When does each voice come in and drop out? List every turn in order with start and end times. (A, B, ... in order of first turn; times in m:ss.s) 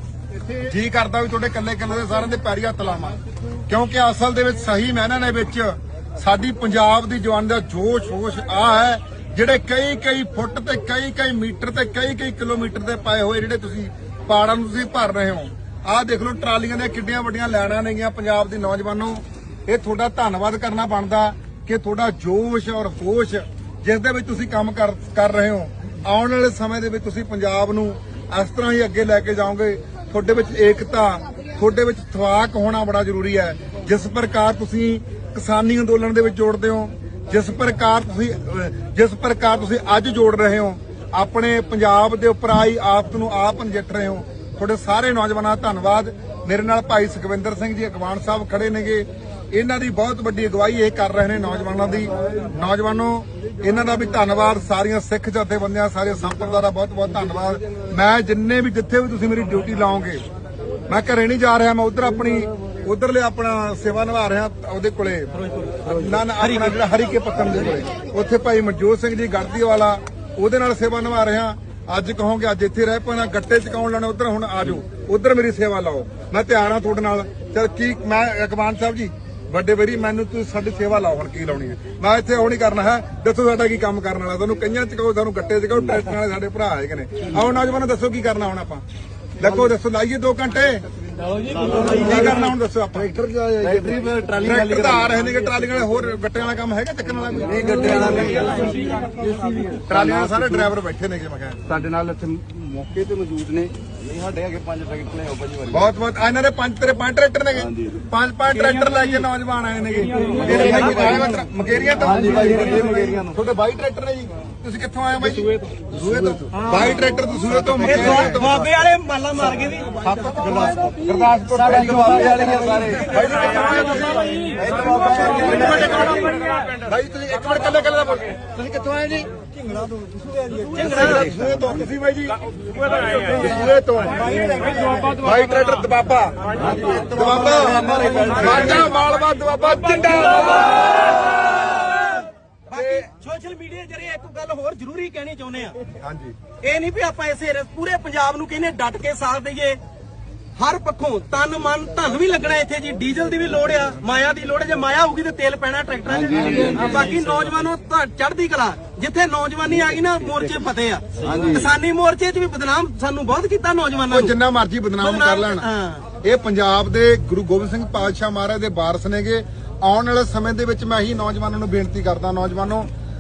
0:00.6-1:00.2 A
1:00.9-1:28.8 A
1:29.4-1:30.8 A
1:31.7-1:32.3 B
1:31.8-1:38.8 A
1:33.6-1:35.1 B
1:37.5-1:40.6 B
1:39.9-1:41.6 A
1:41.7-1:45.9 B
1:45.7-1:58.6 A
1:50.4-1:51.3 B
1:52.0-1:53.4 B
1:56.2-1:56.6 B
1:57.8-1:59.9 C
2:00.0-2:09.3 A
2:01.6-2:03.4 B
2:04.6-2:06.3 B
2:05.4-2:06.4 C
2:10.6-2:11.3 C
2:10.8-2:12.4 A
2:13.0-2:16.4 A
2:16.6-2:18.9 B
2:16.9-2:20.8 A
2:21.6-2:25.8 C
2:22.7-2:23.1 A
2:26.0-2:26.4 A
2:26.6-2:29.8 C
2:30.6-2:44.4 C
2:36.1-2:37.1 B
2:41.2-2:41.7 B
2:44.1-2:45.7 A
2:45.0-2:46.0 C
2:46.2-2:52.9 A